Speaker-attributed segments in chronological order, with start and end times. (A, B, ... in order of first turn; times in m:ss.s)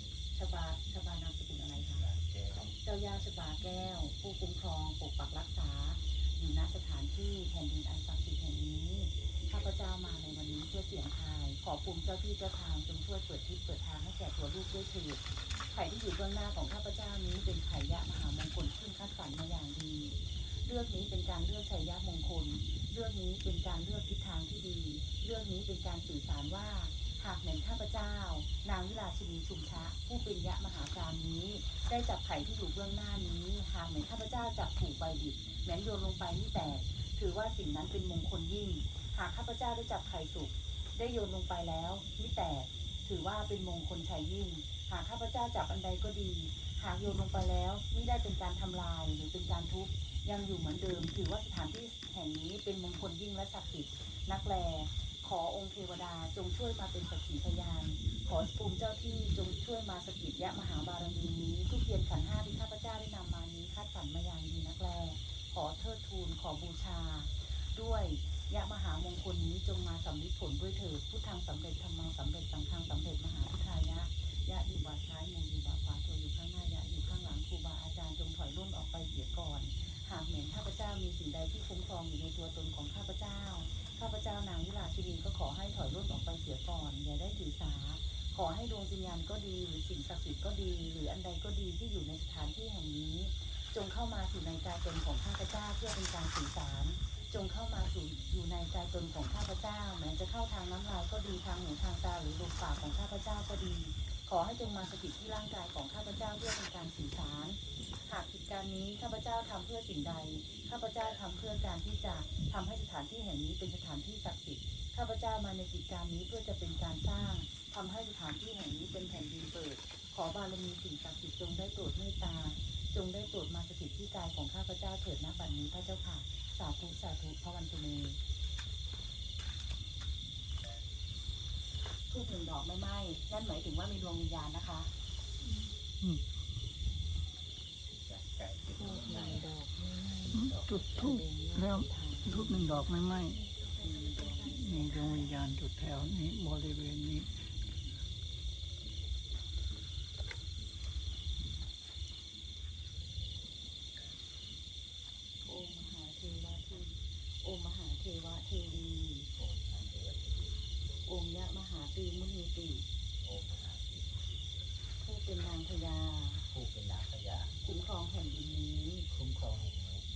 0:00.3-0:02.1 A
0:02.0-0:02.7 B
0:02.8-2:08.2 A
2:12.1-2:14.9 A
2:18.0-2:19.5 B
2:18.8-2:20.4 A
2:20.2-2:21.1 B
2:20.3-2:27.3 C
2:21.0-2:22.8 A
2:23.8-2:24.5 A
2:35.4-2:39.3 A
2:39.4-2:40.6 B
2:41.0-2:42.9 A
2:43.2-2:44.4 B
2:45.0-2:46.5 A
2:46.5-2:47.5 B
2:47.6-2:49.1 A
2:49.1-2:50.0 B